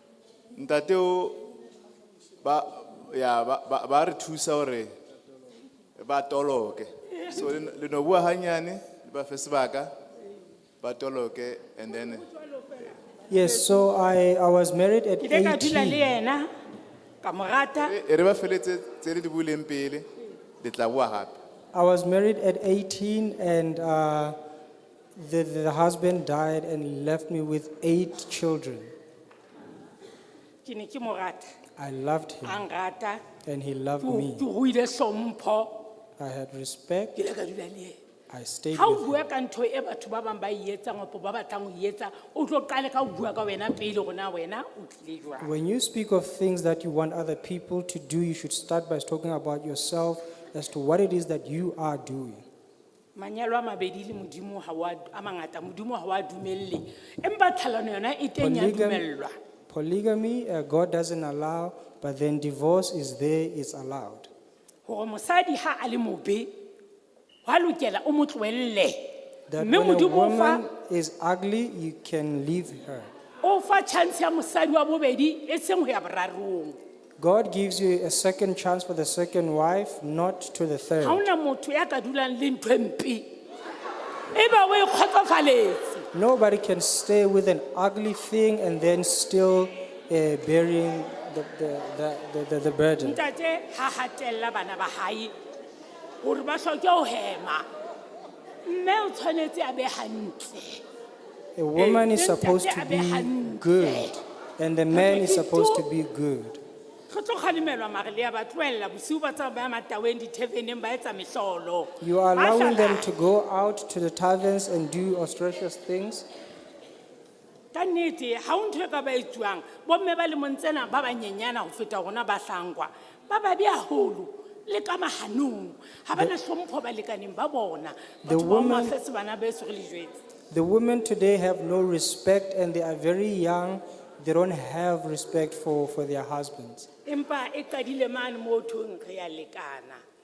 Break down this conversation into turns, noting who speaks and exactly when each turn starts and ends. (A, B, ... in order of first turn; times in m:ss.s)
0:00.6-0:01.4 A
0:02.4-0:04.9 A
0:06.0-0:09.9 A
0:10.8-0:12.7 A
0:13.3-0:16.2 B
0:15.2-0:16.5 C
0:17.2-0:18.0 C
0:17.8-0:20.1 A
0:20.6-0:21.4 A
0:21.7-0:24.4 B
0:25.2-0:28.9 B
0:30.6-0:31.5 C
0:31.8-0:32.7 B
0:32.4-0:33.2 C
0:33.4-0:34.5 B
0:34.0-0:35.8 C
0:36.2-0:37.2 B
0:37.2-0:38.0 C
0:38.3-0:39.2 B
0:38.7-0:45.6 C
0:45.4-0:52.4 B
0:53.2-0:59.4 C
0:58.4-0:59.0 B
0:59.7-1:04.3 B
1:04.9-1:06.5 C
1:07.5-1:10.6 C
1:09.5-1:13.1 B
1:13.4-1:16.8 C
1:17.2-1:21.3 B
1:21.0-1:23.3 C
1:24.3-1:26.0 C
1:26.1-1:33.2 B
1:33.0-1:35.3 C
1:36.2-1:37.7 C
1:38.6-1:40.8 C
1:41.6-1:46.6 B
1:41.8-1:44.1 C
1:44.9-1:45.8 C
1:47.1-1:53.1 C
1:52.0-1:56.3 B
1:57.7-2:10.2 C
2:08.2-2:09.0 B
2:10.5-2:16.9 B
2:17.1-2:20.0 C